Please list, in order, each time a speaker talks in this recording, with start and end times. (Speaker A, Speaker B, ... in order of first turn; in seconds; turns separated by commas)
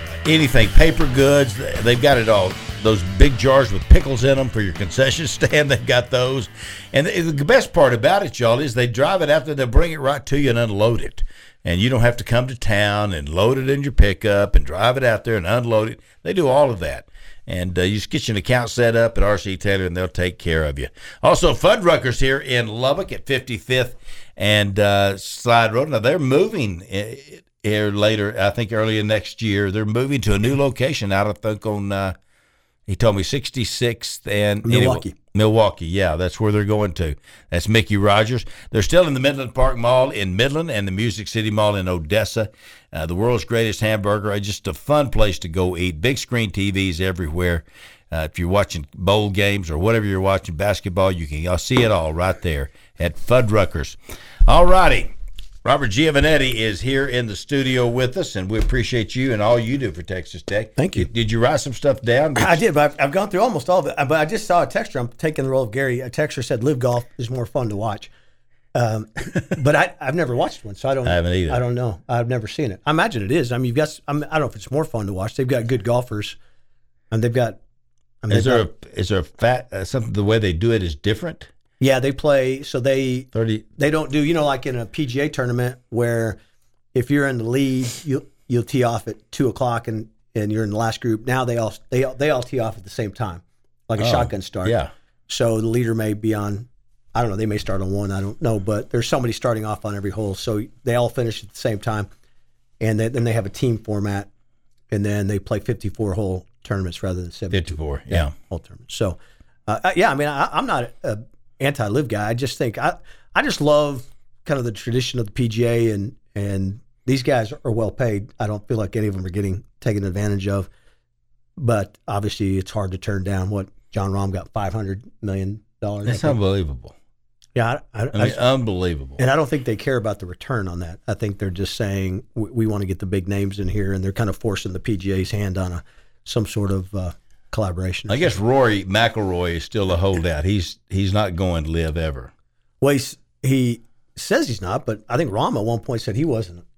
Speaker A: 0.2-32.1, Speaker A: 32.9-62.6, Speaker B: 34.6-35.1, Speaker B: 60.8-61.1, Speaker B: 62.4-68.1, Speaker B: 68.7-76.4, Speaker A: 71.0-71.6, Speaker B: 77.1-77.6, Speaker B: 78.2-78.6, Speaker A: 78.3-81.5, Speaker B: 81.8-86.4, Speaker A: 83.3-83.6, Speaker B: 86.9-102.1, Speaker A: 94.0-94.9, Speaker B: 102.8-104.3, Speaker B: 104.9-120.7, Speaker A: 107.5-108.3, Speaker B: 121.6-126.4, Speaker A: 126.0-126.9, Speaker B: 127.5-128.4, Speaker A: 128.1-129.2, Speaker B: 129.2-138.3, Speaker A: 138.1-142.3, Speaker B: 142.8-146.6